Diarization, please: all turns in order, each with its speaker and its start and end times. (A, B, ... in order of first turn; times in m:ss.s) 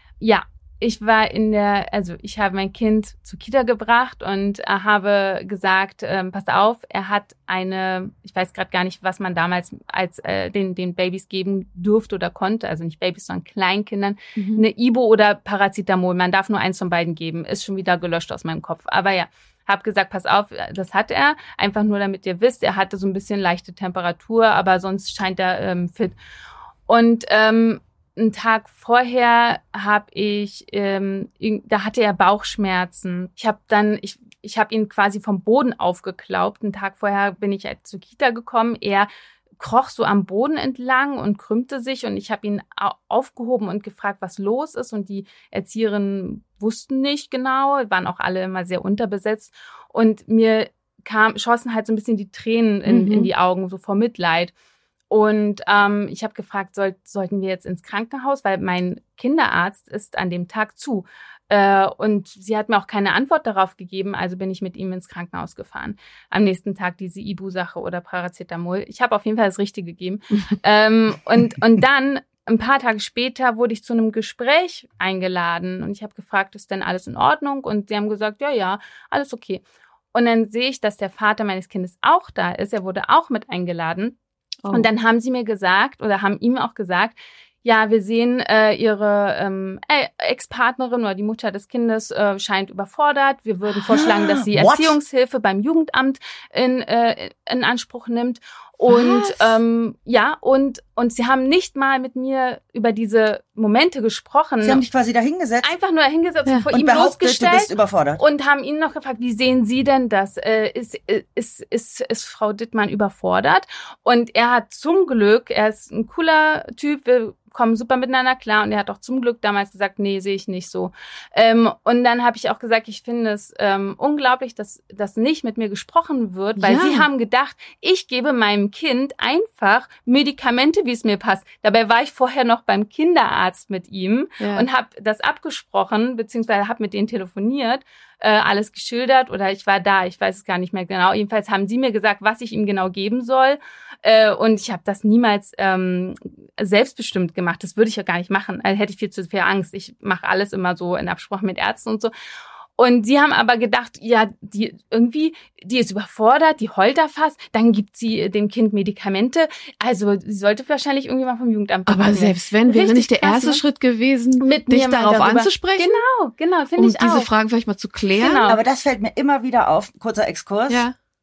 0:00.2-0:26.2 A
0:14.4-0:14.6 B
0:26.9-0:54.5 A
0:52.8-0:53.3 B
0:55.1-1:19.6 A
1:20.1-1:24.2 A
1:24.7-1:44.8 A
1:33.8-1:35.0 C
1:38.9-1:39.6 B
1:44.6-1:45.7 C
1:45.6-2:32.1 A
1:46.7-1:48.2 C
2:06.6-2:07.1 B
2:14.4-2:14.7 B
2:32.8-2:43.6 A
2:41.9-2:46.0 B
2:44.4-2:47.3 A
2:46.8-2:48.5 B
2:48.2-2:48.6 A
2:48.5-2:50.8 C
2:50.7-2:50.9 B